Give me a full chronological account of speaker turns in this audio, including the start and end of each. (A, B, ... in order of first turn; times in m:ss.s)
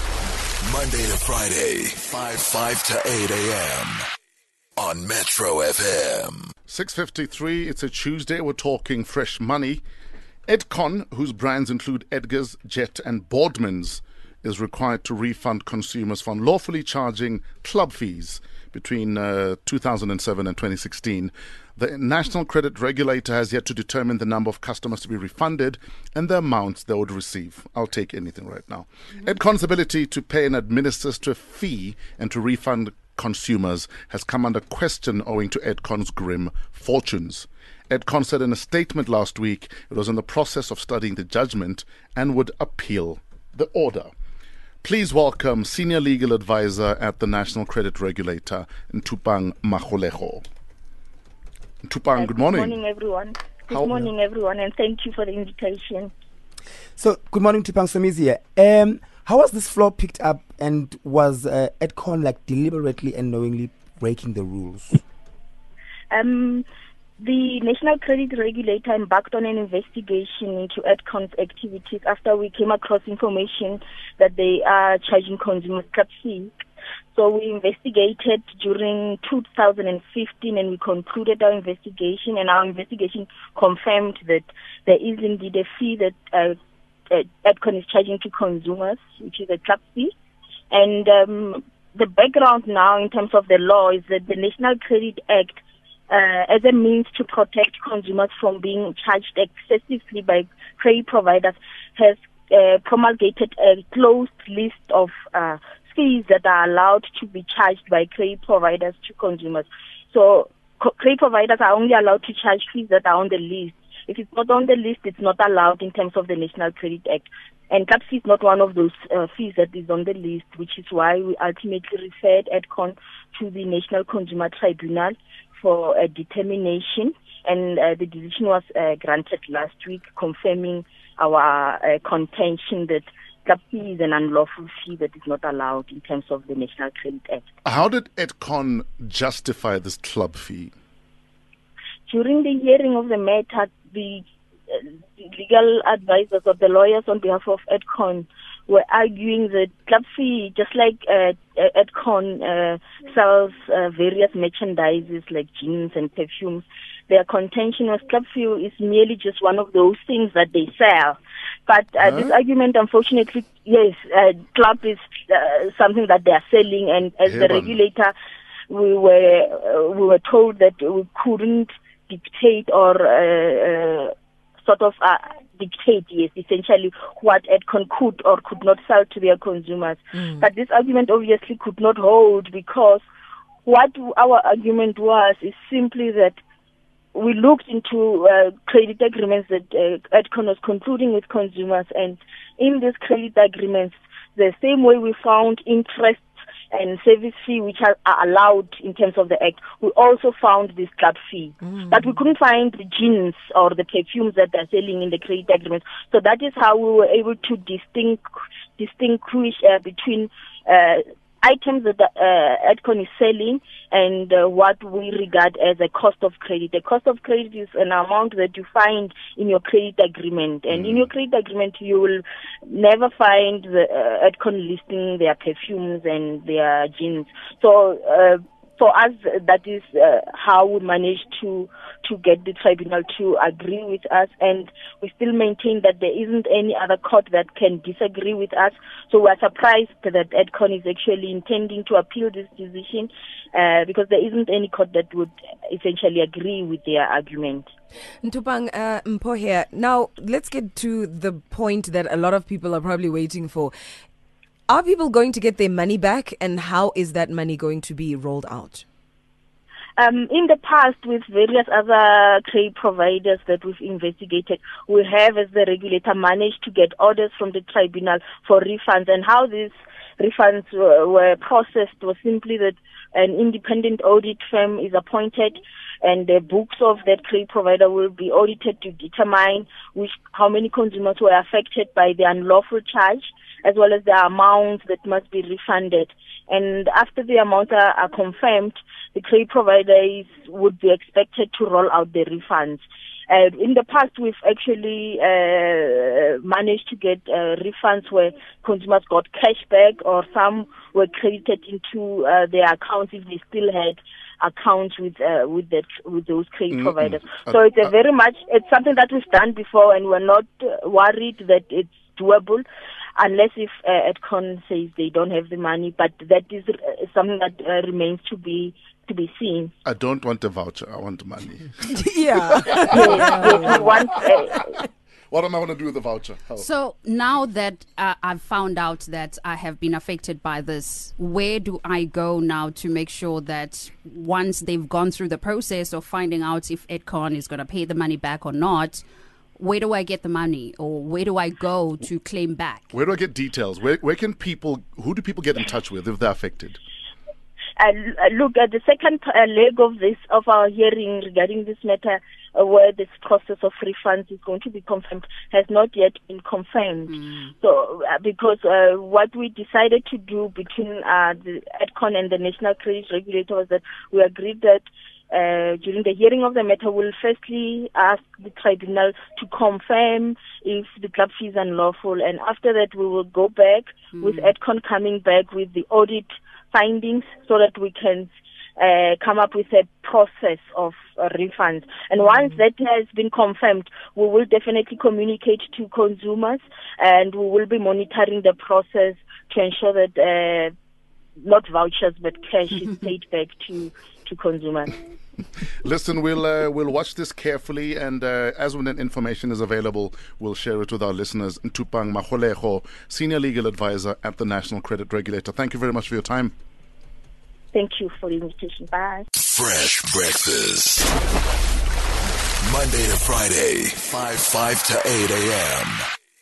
0:00.6-0:04.0 A
0:04.8-0:06.5 A
0:06.7-0:09.8 B
0:10.5-0:44.1 B
0:44.8-0:50.4 B
0:51.8-0:52.8 B
0:52.2-0:56.1 C
0:57.0-1:05.0 D
1:06.1-1:06.6 C
1:07.2-1:16.5 C
1:17.1-1:26.6 C
1:27.1-1:30.1 C
1:30.7-2:17.4 C
2:17.6-2:20.7 B
2:22.1-2:48.2 C
2:42.0-2:42.3 B
2:47.3-2:47.8 B
2:48.7-2:54.1 C
2:54.6-3:03.0 C
3:03.6-3:06.4 C
3:07.1-3:28.3 C
3:28.8-4:07.7 C
3:40.7-3:41.1 B
4:08.2-4:13.8 E
4:14.7-4:18.8 E
4:20.0-5:12.6 C
5:06.7-5:07.6 B
5:13.2-5:19.7 C
5:19.8-5:21.8 B
5:21.9-5:23.9 E
5:22.8-5:24.8 C
5:22.9-5:23.8 B
5:25.3-5:26.7 B
5:26.6-5:39.0 F
5:39.6-5:42.9 F
5:42.9-5:46.8 B
5:47.8-6:30.7 C
5:57.1-5:57.5 F
6:14.2-6:14.5 F
6:31.4-6:35.0 C
6:35.8-6:46.5 B
6:47.7-6:49.3 C
6:49.4-6:51.1 A
6:52.6-6:56.0 A